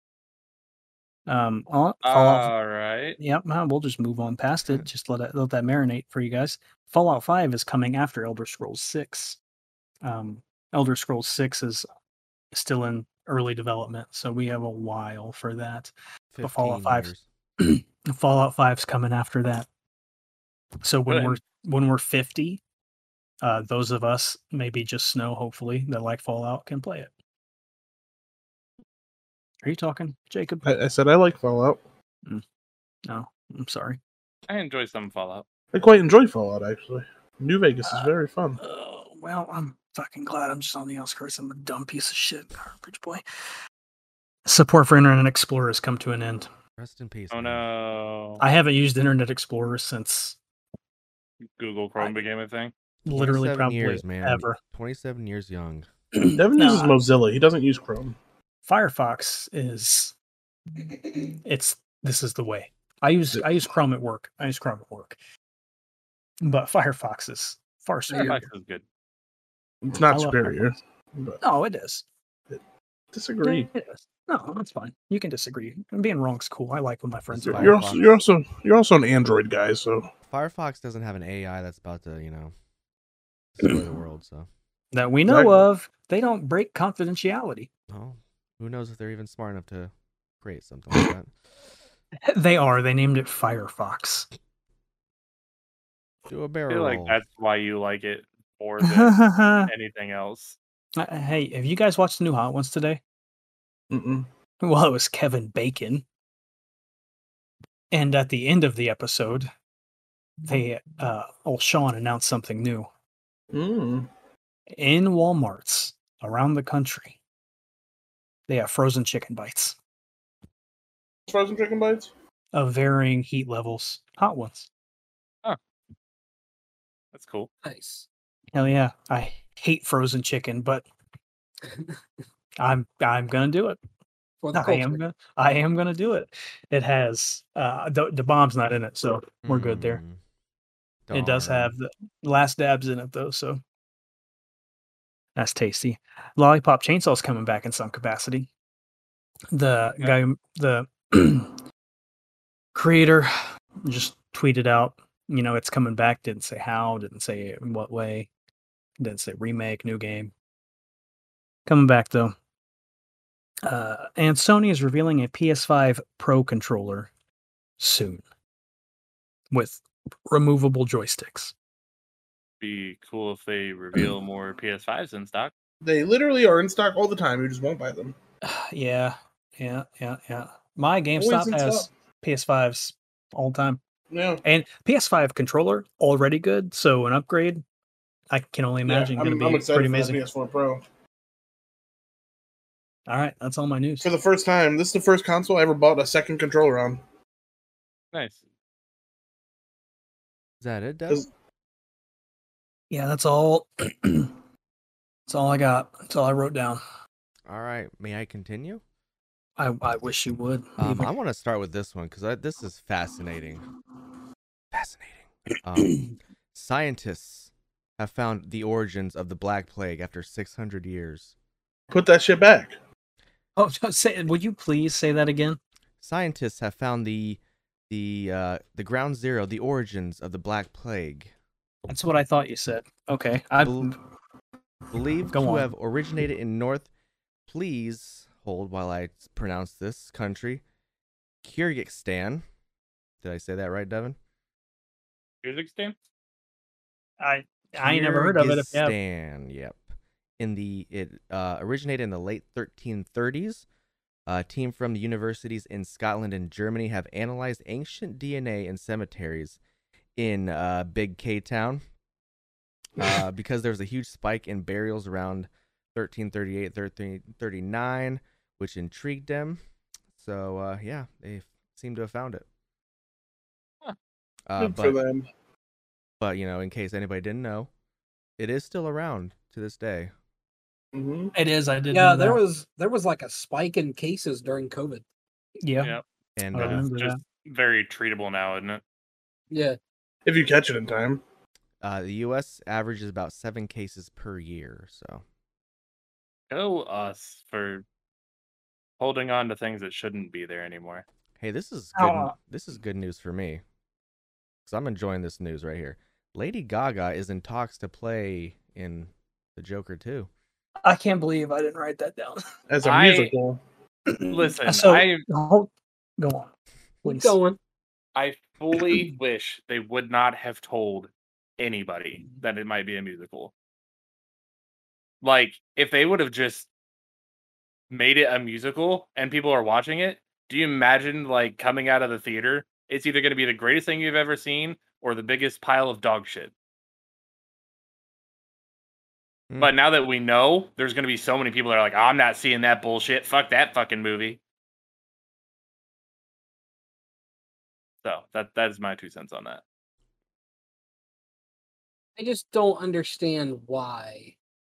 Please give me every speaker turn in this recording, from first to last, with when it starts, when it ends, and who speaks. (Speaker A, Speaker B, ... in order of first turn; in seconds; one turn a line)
Speaker A: 1.3-2.5
Speaker B: 2.0-3.2
Speaker A: 3.2-9.4
Speaker A: 10.0-11.8
Speaker A: 12.5-19.7
Speaker C: 16.3-17.2
Speaker A: 20.8-22.6
Speaker B: 21.1-21.4
Speaker A: 23.4-27.1
Speaker A: 29.6-30.7
Speaker D: 30.6-31.8
Speaker A: 33.1-34.0
Speaker B: 34.5-35.4
Speaker D: 35.7-38.6
Speaker A: 37.9-43.2
Speaker A: 44.5-46.5
Speaker C: 46.8-47.6
Speaker B: 47.3-48.4
Speaker A: 48.4-50.4
Speaker B: 51.6-52.7
Speaker A: 52.0-52.2
Speaker A: 53.0-54.6
Speaker C: 53.1-55.9
Speaker A: 56.1-57.0
Speaker D: 56.3-58.1
Speaker A: 58.7-60.1
Speaker A: 60.8-65.2
Speaker A: 66.4-68.5
Speaker B: 68.2-68.8
Speaker D: 69.8-71.4
Speaker A: 70.1-70.7
Speaker A: 71.4-72.0
Speaker D: 73.1-73.7
Speaker A: 73.4-77.9
Speaker C: 77.3-78.2
Speaker D: 77.5-80.1
Speaker C: 80.3-82.5
Speaker C: 83.6-84.5
Speaker A: 84.9-87.7
Speaker D: 85.2-85.6
Speaker C: 87.9-91.3
Speaker A: 92.3-94.3
Speaker C: 96.3-97.2
Speaker B: 96.7-100.6
Speaker A: 98.8-99.7
Speaker A: 101.0-103.0
Speaker D: 103.9-104.3
Speaker A: 104.6-106.0
Speaker A: 107.9-109.5
Speaker A: 110.5-112.9
Speaker D: 113.5-114.1
Speaker A: 114.7-117.2
Speaker A: 118.5-119.8
Speaker D: 121.3-122.1
Speaker A: 122.5-124.7
Speaker B: 127.1-127.5
Speaker E: 127.6-128.1
Speaker A: 128.5-130.8
Speaker E: 131.7-131.9
Speaker A: 132.6-133.8
Speaker E: 134.4-135.0
Speaker A: 134.5-140.0
Speaker C: 139.4-140.2
Speaker C: 141.1-141.7
Speaker A: 141.1-143.6
Speaker A: 145.3-148.5
Speaker A: 149.5-151.6
Speaker A: 152.7-153.3
Speaker A: 153.8-158.3
Speaker A: 159.0-160.3
Speaker A: 161.7-162.3
Speaker A: 163.7-167.1
Speaker A: 167.8-168.2
Speaker A: 169.5-171.5
Speaker B: 172.6-175.5
Speaker D: 175.8-178.2
Speaker A: 178.4-183.8
Speaker D: 181.2-181.9
Speaker D: 184.1-184.4
Speaker A: 184.4-187.6
Speaker A: 188.3-190.2
Speaker D: 188.8-190.8
Speaker A: 193.1-194.1
Speaker D: 194.0-197.0
Speaker B: 198.1-198.4
Speaker C: 200.6-201.3
Speaker A: 202.9-204.3
Speaker A: 205.3-206.8
Speaker C: 207.5-208.8
Speaker A: 209.6-211.1
Speaker C: 210.8-213.6
Speaker C: 214.7-221.3
Speaker A: 215.8-216.1
Speaker D: 221.9-222.8
Speaker A: 223.6-225.6
Speaker C: 226.0-231.3
Speaker A: 231.9-234.0
Speaker C: 233.6-233.9
Speaker C: 234.9-236.9
Speaker A: 235.3-235.7
Speaker C: 237.5-240.6
Speaker C: 241.4-242.4
Speaker C: 243.2-244.2
Speaker B: 245.4-245.9
Speaker A: 247.2-248.9
Speaker C: 247.8-249.8
Speaker C: 250.4-253.7
Speaker C: 254.2-259.6
Speaker C: 260.2-261.8
Speaker C: 263.0-269.6
Speaker C: 270.2-272.4
Speaker C: 274.5-275.0
Speaker D: 274.6-275.3
Speaker C: 276.2-277.7
Speaker C: 278.4-280.1
Speaker D: 280.9-281.3
Speaker A: 281.3-282.4
Speaker E: 281.9-285.0
Speaker A: 285.6-286.0
Speaker C: 286.4-286.9
Speaker A: 286.5-287.2
Speaker B: 286.6-288.8
Speaker E: 289.5-289.8
Speaker D: 290.2-291.2
Speaker C: 291.8-295.2
Speaker B: 296.5-297.8
Speaker B: 299.0-301.0
Speaker C: 301.4-303.6
Speaker A: 301.9-302.3
Speaker C: 304.6-310.3
Speaker A: 310.8-312.4
Speaker D: 312.7-313.6
Speaker B: 312.8-313.3
Speaker A: 314.1-316.5
Speaker B: 314.3-315.2
Speaker E: 317.0-317.6
Speaker A: 317.0-317.4
Speaker B: 318.1-323.5
Speaker B: 325.2-326.7
Speaker B: 327.9-336.5
Speaker B: 339.6-344.4
Speaker B: 348.0-349.6
Speaker E: 352.2-354.3